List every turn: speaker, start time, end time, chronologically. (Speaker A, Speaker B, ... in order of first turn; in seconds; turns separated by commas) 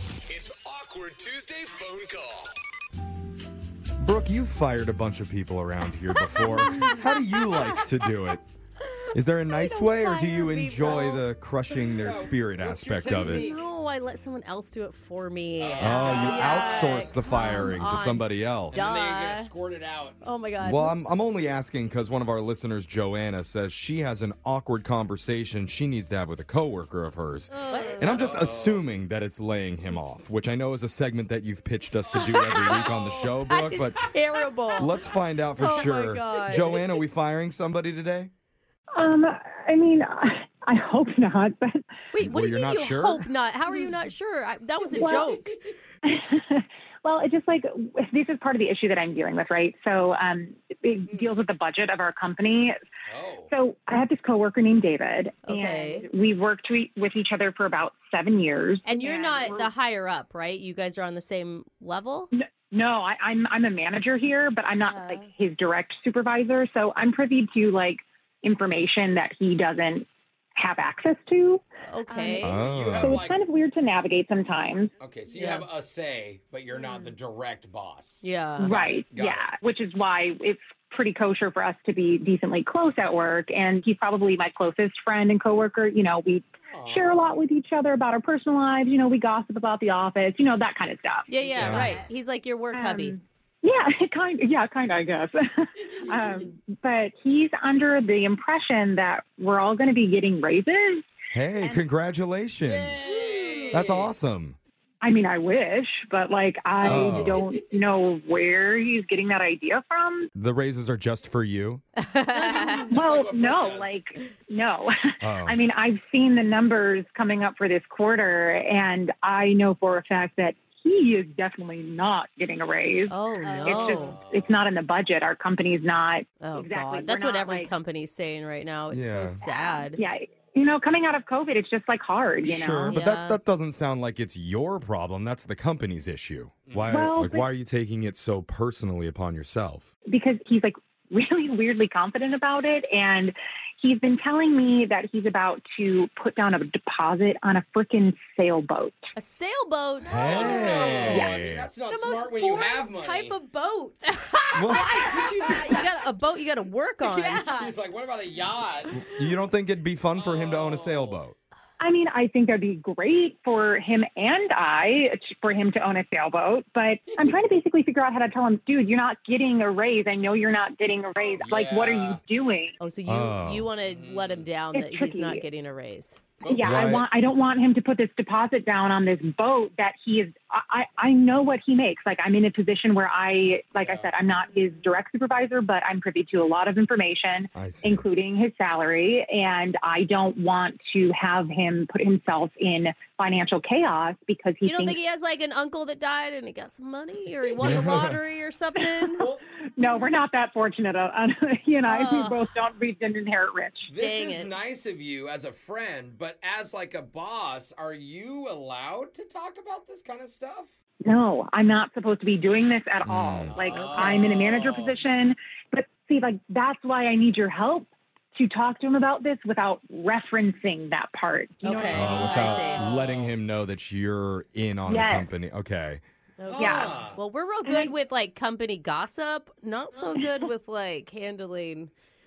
Speaker A: 0.3-2.5, Speaker B: 4.0-8.4, Speaker C: 6.2-7.8, Speaker B: 9.1-13.5, Speaker C: 9.5-11.2, Speaker D: 11.8-13.7, Speaker C: 13.2-19.5, Speaker D: 15.6-17.2, Speaker B: 15.8-18.8, Speaker D: 18.7-20.2, Speaker C: 20.2-20.9, Speaker B: 20.6-34.0, Speaker E: 27.5-28.2, Speaker C: 27.7-28.0, Speaker D: 28.0-28.8, Speaker D: 32.1-33.4, Speaker C: 33.6-35.0, Speaker B: 34.8-38.3, Speaker C: 35.6-36.8, Speaker F: 38.9-41.8, Speaker C: 42.1-45.5, Speaker B: 42.2-43.3, Speaker F: 44.9-45.3, Speaker F: 46.0-52.7, Speaker D: 51.1-51.4, Speaker D: 53.1-53.5, Speaker F: 53.5-59.7, Speaker C: 55.4-56.0, Speaker C: 58.8-62.3, Speaker F: 62.3-72.3, Speaker E: 64.8-65.3, Speaker C: 71.9-72.6, Speaker B: 72.4-73.2, Speaker D: 72.4-73.4, Speaker F: 73.0-74.9, Speaker D: 75.0-79.5, Speaker C: 75.3-75.7, Speaker C: 78.2-78.7, Speaker F: 78.6-91.3, Speaker D: 86.7-87.3, Speaker C: 91.3-93.2, Speaker E: 91.4-92.1, Speaker B: 91.5-92.0, Speaker F: 92.7-101.1, Speaker B: 101.3-103.2, Speaker D: 102.6-104.1, Speaker B: 103.7-104.6, Speaker F: 105.0-110.3, Speaker B: 106.8-107.4, Speaker C: 106.9-107.2, Speaker B: 110.3-111.8, Speaker C: 112.0-112.9, Speaker F: 112.5-127.7, Speaker E: 112.5-112.8, Speaker D: 112.9-114.0, Speaker B: 115.2-115.6, Speaker C: 123.1-124.1, Speaker E: 123.4-124.1, Speaker D: 123.9-124.6, Speaker C: 126.4-130.0, Speaker B: 128.9-129.4, Speaker F: 129.4-133.0, Speaker B: 132.4-139.9, Speaker C: 132.9-133.4, Speaker D: 136.7-136.9, Speaker F: 136.9-137.4, Speaker F: 140.1-149.0, Speaker C: 149.2-151.2, Speaker D: 150.0-153.3, Speaker B: 150.1-151.7, Speaker E: 150.3-151.2, Speaker E: 151.8-154.1, Speaker C: 154.1-157.4, Speaker B: 154.5-155.0, Speaker E: 154.6-155.9, Speaker E: 157.0-157.7, Speaker D: 157.5-159.0, Speaker B: 159.0-161.3, Speaker D: 160.2-161.2, Speaker F: 161.8-172.8, Speaker D: 171.4-172.2, Speaker C: 172.8-176.2, Speaker B: 173.1-173.7, Speaker D: 173.8-174.5, Speaker F: 174.7-175.4, Speaker D: 176.4-177.0, Speaker F: 176.5-195.0, Speaker B: 176.6-177.1, Speaker D: 183.8-184.1, Speaker E: 184.3-184.9, Speaker B: 187.5-188.0, Speaker C: 194.6-199.2, Speaker B: 197.6-198.2, Speaker F: 198.9-199.2, Speaker D: 199.2-199.4, Speaker F: 199.8-203.9, Speaker C: 201.9-202.5, Speaker D: 203.9-210.7, Speaker C: 204.0-204.5, Speaker F: 211.0-222.7, Speaker B: 213.0-213.6, Speaker D: 213.4-215.0, Speaker C: 213.7-214.2, Speaker C: 221.6-222.9, Speaker B: 221.9-226.0, Speaker D: 222.0-223.3, Speaker F: 224.9-225.3, Speaker C: 226.4-231.9, Speaker D: 226.5-227.2, Speaker F: 226.5-227.9